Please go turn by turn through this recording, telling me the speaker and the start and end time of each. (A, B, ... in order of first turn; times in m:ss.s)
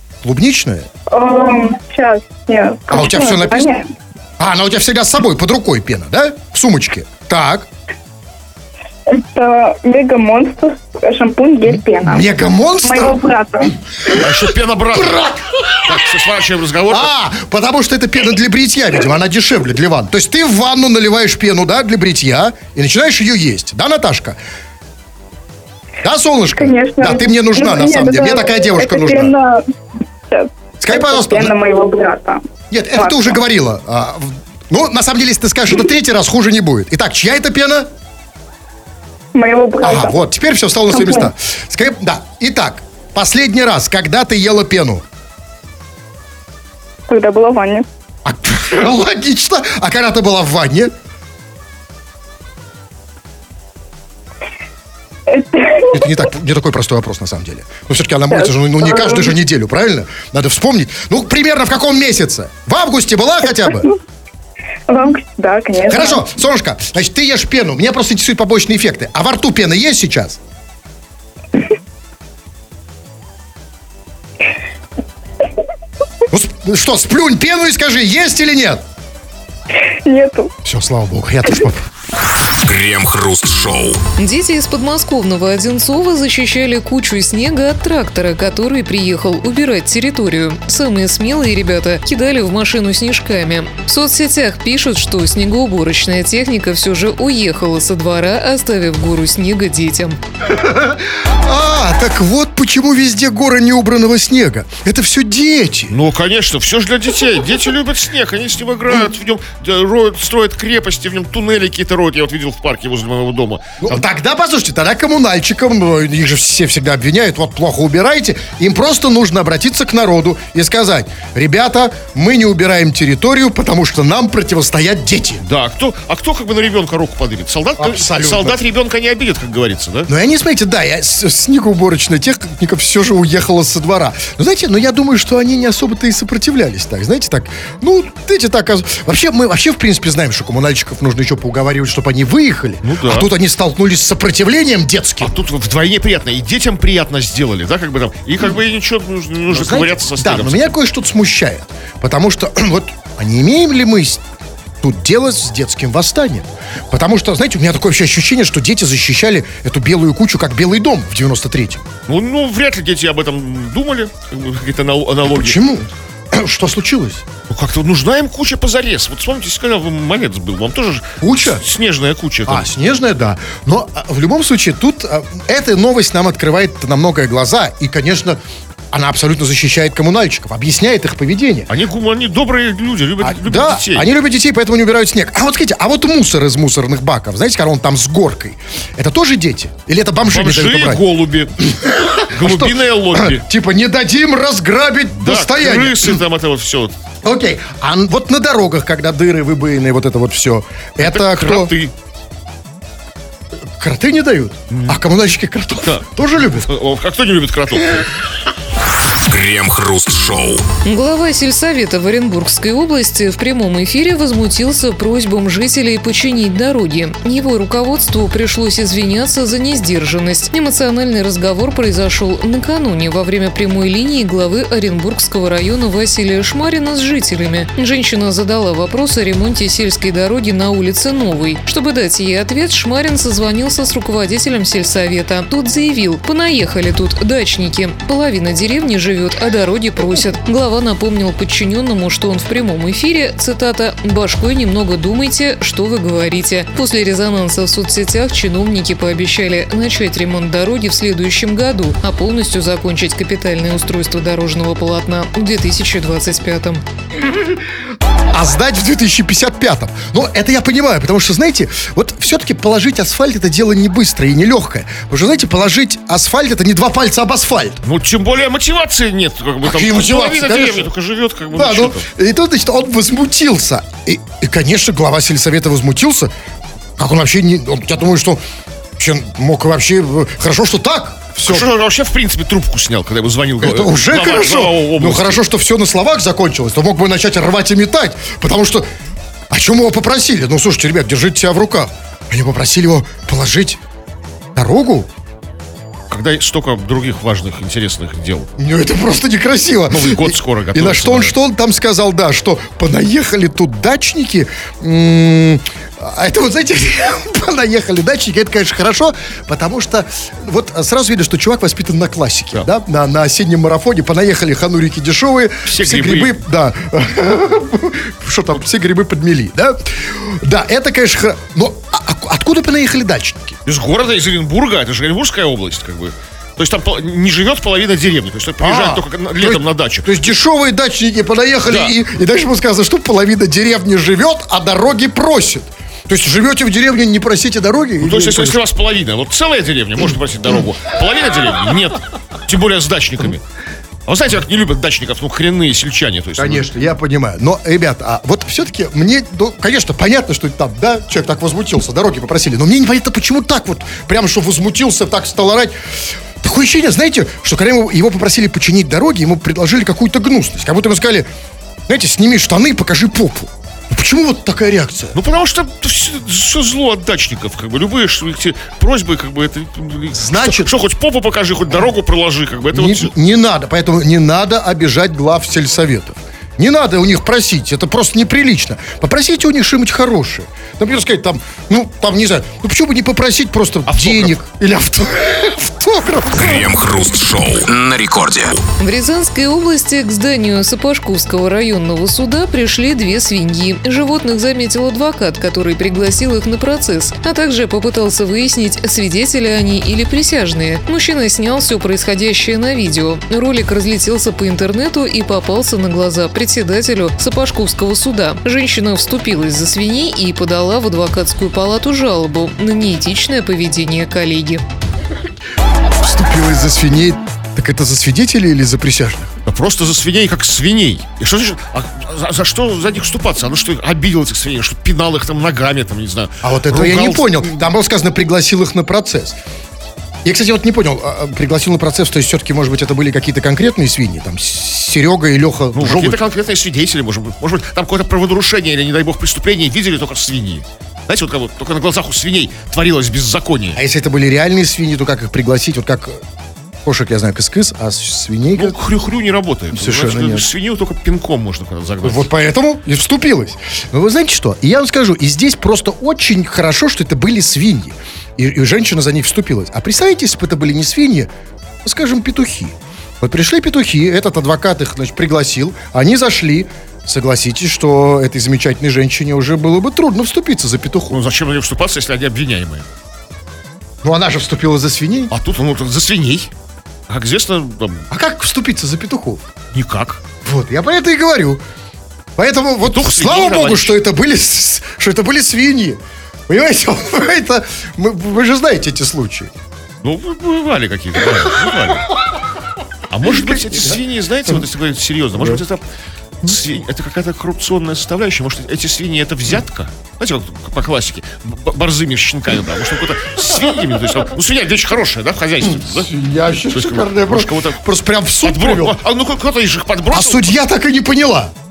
0:00.2-0:00.9 A
0:01.1-0:03.9 B
0:02.9-0:03.7 A
0:04.4-0:07.7 A
0:09.1-0:12.3 B
0:11.7-0:13.2 A
0:12.8-0:13.8 B
0:14.0-0:16.1 A
0:14.1-0:15.2 C
0:15.8-0:17.1 C
0:16.9-0:24.4 A
0:26.0-0:29.3 A
0:26.6-0:29.7 B
0:30.3-0:33.4 B
0:30.8-0:31.5 A
0:32.7-0:37.9 A
0:39.4-0:40.2 B
0:39.8-0:45.0 A
0:40.9-0:41.3 B
0:47.1-0:47.9 B
0:48.2-0:50.9 A
0:55.3-0:56.1 B
0:55.9-1:03.9 A
0:58.3-0:59.4 B
1:04.9-1:06.2 B
1:05.9-1:10.4 A
1:16.3-1:18.8 A
1:20.0-1:20.5 B
1:20.6-1:21.8 A
1:22.2-1:24.0 D
1:24.2-1:40.2 E
1:40.5-1:45.9 A
1:45.9-1:54.0 C
1:53.8-2:05.4 A
2:05.4-2:10.1 C
2:07.8-2:08.6 A
2:10.1-2:25.3 A
2:22.8-2:23.3 C
2:25.2-2:30.7 C
2:29.5-2:34.2 A
2:34.8-2:41.9 A
2:42.1-2:45.6 C
2:45.2-2:47.3 A
2:47.5-2:52.7 C
2:51.2-2:51.6 A
2:52.5-2:58.4 A
2:58.9-3:01.7 A
3:01.7-3:04.1 C
3:03.2-3:11.0 A
3:10.3-3:11.5 C
3:11.6-3:16.2 A
3:12.3-3:13.4 C
3:15.2-3:17.0 C
3:17.2-3:21.7 A
3:21.0-3:21.9 C
3:23.8-3:26.7 A
3:24.7-3:25.0 C
3:26.7-3:28.1 C
3:28.8-3:30.6 D
3:30.8-4:16.8 E
4:18.3-4:27.8 A
4:27.8-4:32.1 C
4:29.6-4:30.9 A
4:31.5-4:36.3 A
4:37.0-4:38.4 A
4:39.0-4:41.7 A
4:41.4-4:45.4 C
4:43.6-4:48.9 A
4:49.5-4:53.8 A
4:54.6-4:55.1 A
4:56.1-4:58.5 C
4:58.6-5:23.6 A
4:59.9-5:01.4 C
5:15.7-5:16.4 C
5:23.7-5:30.3 C
5:28.6-5:38.6 A
5:38.0-5:43.4 C
5:44.1-5:46.7 C
5:46.4-5:55.8 A
5:56.4-6:01.3 A
6:01.9-6:05.2 A
6:05.2-6:13.1 C
6:10.1-6:10.8 A
6:12.7-6:26.7 A
6:23.9-6:24.3 C
6:26.3-6:28.6 D
6:28.8-6:54.6 E
6:56.0-6:59.3 A
6:59.5-7:07.7 C
7:06.4-7:09.4 A
7:10.2-7:16.2 A
7:15.8-7:23.8 C
7:23.8-7:26.2 A
7:26.8-7:28.8 A
7:28.6-7:32.3 C
7:29.7-7:30.5 A
7:32.0-7:41.3 A
7:41.8-7:51.2 A
7:51.1-7:52.9 C
7:54.0-7:55.3 A
7:55.3-7:56.5 C
7:57.1-7:58.0 C
7:58.1-7:59.5 A
7:59.7-8:00.2 C
8:00.4-8:01.6 A
8:02.4-8:09.5 A
8:02.8-8:04.0 C
8:10.0-8:12.1 C
8:13.1-8:15.8 C
8:13.3-8:14.6 A
8:16.4-8:26.1 C
8:25.6-8:29.0 A
8:26.7-8:27.8 C
8:28.4-8:30.6 C
8:30.1-8:31.5 A